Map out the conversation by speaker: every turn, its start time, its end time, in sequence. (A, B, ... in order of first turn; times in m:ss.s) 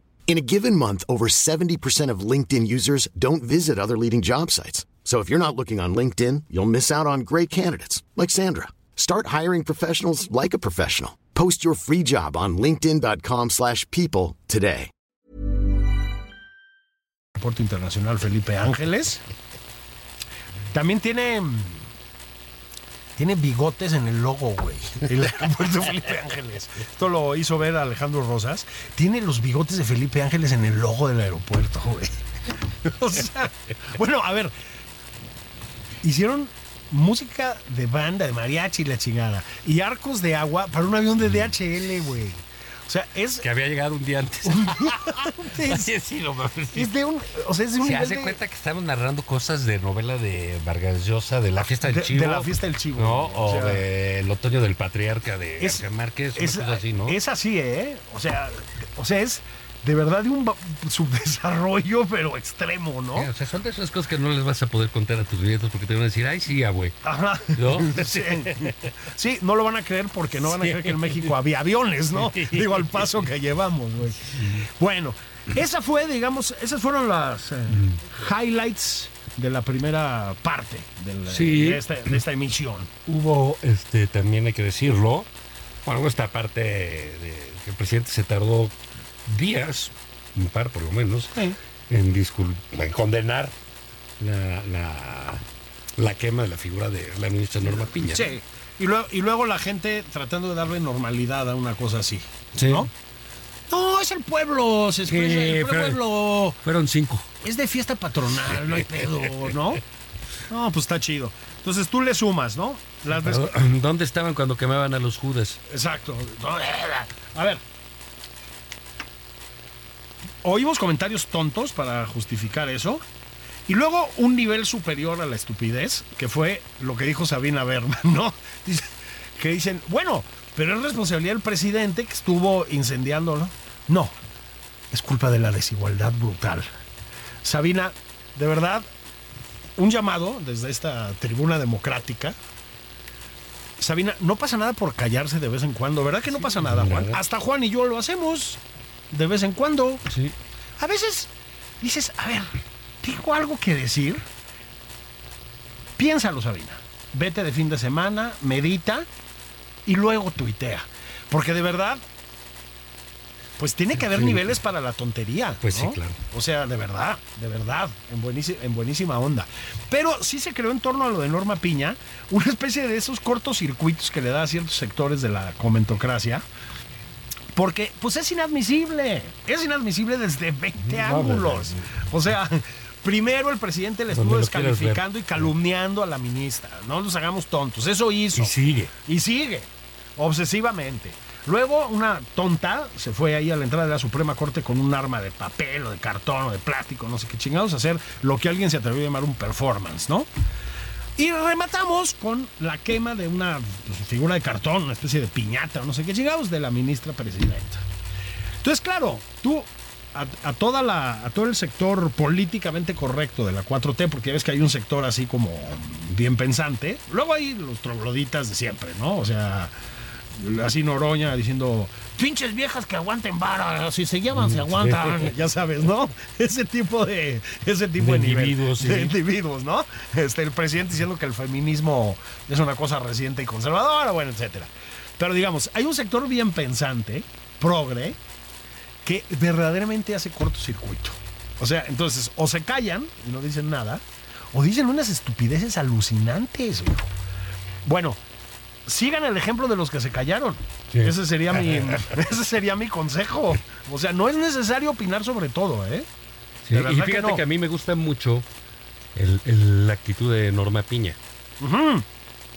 0:00.3-0:14.9 A
0:17.4-0:19.2 B
0:20.7-0:21.8 B
0:23.2-0:32.2 B
0:32.8-0:34.5 B
0:36.0-0:43.5 B
0:43.4-0:46.9 C
0:44.4-0:45.9 B
0:46.7-0:48.4 B
0:47.8-0:57.2 C
0:51.8-0:53.8 B
0:56.4-1:03.3 B
1:03.2-1:07.0 C
1:07.0-1:22.9 B
1:07.5-1:08.9 C
1:10.4-1:11.3 C
1:12.2-1:13.2 C
1:14.3-1:14.6 C
1:21.3-1:22.1 C
1:23.1-1:25.3 C
1:25.8-1:28.7 C
1:29.3-1:31.4 C
1:31.9-1:33.5 C
1:34.2-1:35.4 C
1:36.0-1:38.3 C
1:38.1-1:42.9 B
1:42.6-1:42.9 C
1:43.7-1:46.6 B
1:45.1-1:46.0 C
1:46.6-1:47.3 C
1:47.4-1:49.8 B
1:48.7-1:49.5 C
1:50.5-1:53.4 B
1:53.1-1:55.6 C
1:55.7-1:57.6 B
2:00.4-2:03.0 B
2:03.7-2:14.1 B
2:14.9-2:16.7 B
2:17.4-2:18.9 B
2:19.8-2:22.4 B
2:23.8-2:28.6 B
2:26.4-2:27.2 C
2:29.1-2:30.0 B
2:30.1-2:30.3 C
2:30.8-2:31.3 B
2:31.8-2:34.2 B
2:36.0-2:39.1 B
2:39.9-2:42.0 B
2:43.6-2:56.4 B
2:44.0-2:44.6 C
2:45.6-2:46.2 C
2:57.5-3:20.3 B
3:00.8-3:01.8 C
3:04.1-3:05.5 C
3:08.4-3:08.9 C
3:21.2-3:27.8 B
3:28.6-3:39.7 B
3:40.4-3:58.2 B
3:44.3-3:45.3 C
3:48.0-3:49.2 C
3:59.0-4:07.1 B
4:07.8-4:08.2 B
4:08.9-4:16.1 B
4:10.9-4:12.1 C
4:16.6-4:18.5 C
4:16.7-4:17.4 B
4:19.2-4:21.2 C
4:21.6-4:22.0 B